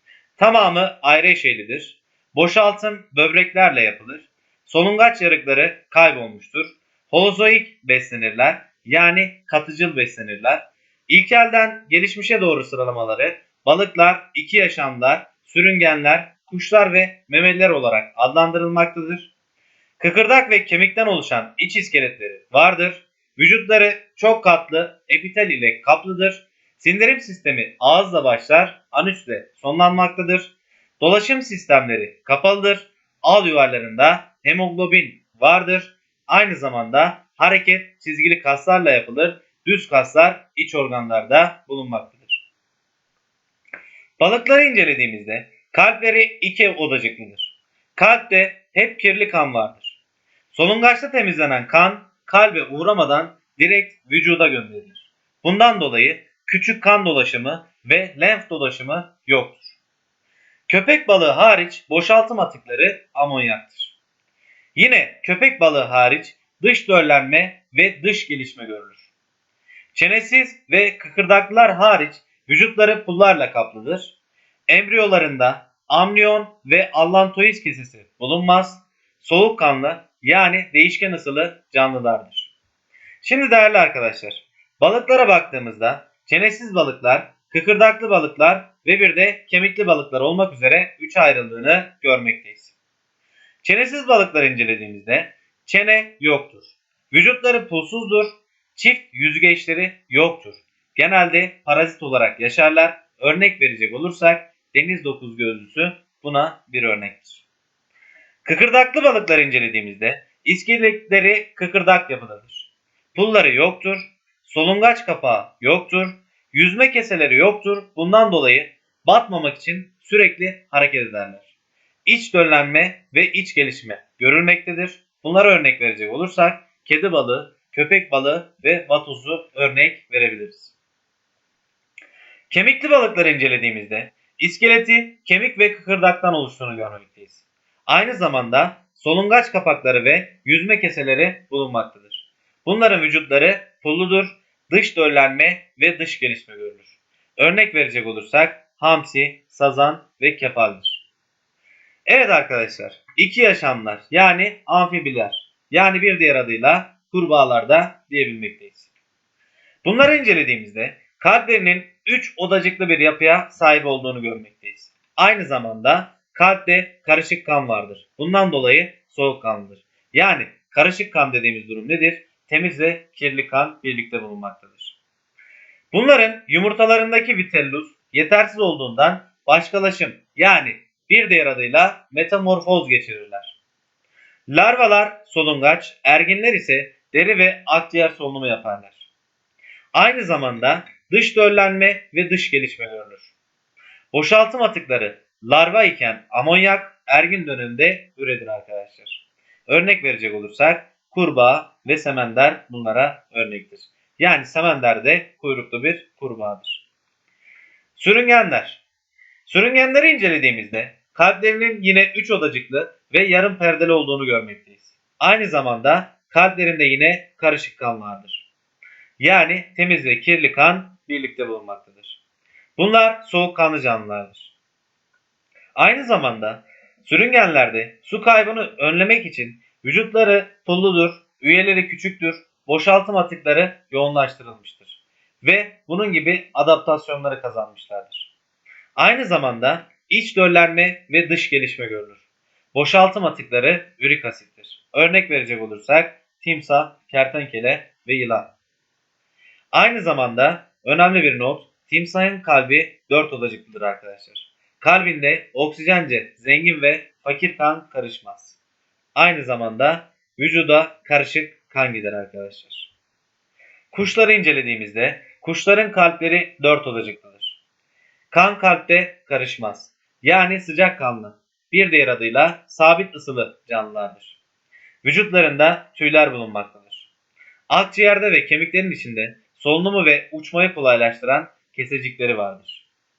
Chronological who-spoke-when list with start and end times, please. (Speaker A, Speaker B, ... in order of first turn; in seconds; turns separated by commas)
Speaker A: 0.4-19.3, Speaker A: 20.0-42.4, Speaker A: 44.2-50.0, Speaker A: 50.5-59.8, Speaker A: 60.7-64.0, Speaker A: 64.8-69.0, Speaker A: 69.9-74.2, Speaker A: 74.7-82.5, Speaker A: 83.2-92.8, Speaker A: 93.6-107.5, Speaker A: 108.5-121.5, Speaker A: 122.1-130.7, Speaker A: 132.5-151.0, Speaker A: 152.1-158.9, Speaker A: 159.8-175.0, Speaker A: 175.9-183.6, Speaker A: 184.5-189.1, Speaker A: 189.9-193.3, Speaker A: 194.1-206.8, Speaker A: 208.0-208.8, Speaker A: 209.5-218.5, Speaker A: 219.2-222.2, Speaker A: 222.8-224.5, Speaker A: 225.8-238.3, Speaker A: 239.0-242.2, Speaker A: 242.7-248.5, Speaker A: 249.7-258.6, Speaker A: 259.1-262.9, Speaker A: 263.9-267.6, Speaker A: 268.3-274.4, Speaker A: 275.0-277.1, Speaker A: 277.7-282.9